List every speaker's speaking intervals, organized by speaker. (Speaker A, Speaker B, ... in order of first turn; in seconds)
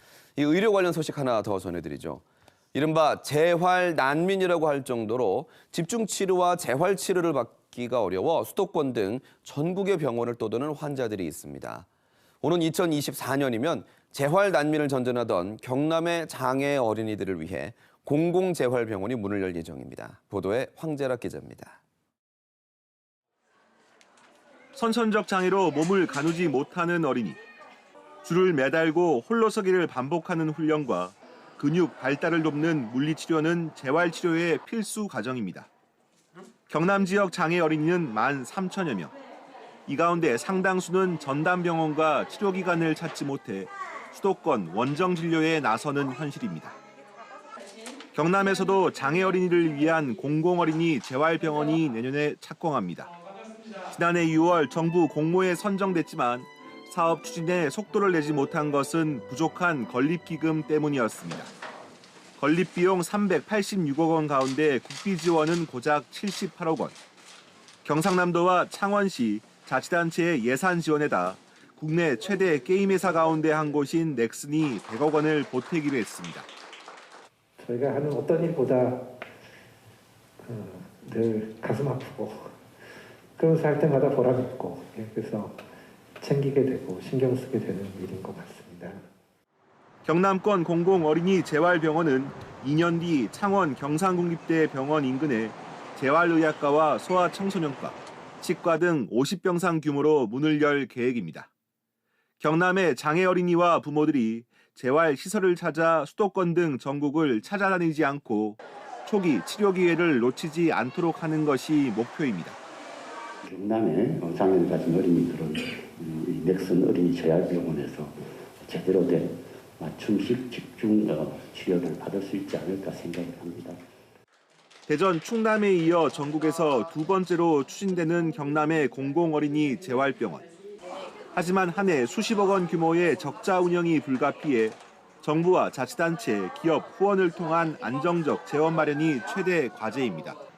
Speaker A: 0.4-2.2, 2.7-11.8, 12.4-21.8
Speaker B: 24.7-27.4, 28.2-35.7, 36.7-39.1, 39.9-46.7, 48.1-53.1, 53.9-61.5, 62.4-67.0, 67.8-76.5, 90.0-101.5, 102.4-112.6, 124.9-130.5, 131.3-140.4
Speaker C: 77.6-79.1, 80.4-82.5, 83.4-85.6, 86.2-89.0
Speaker D: 113.4-123.8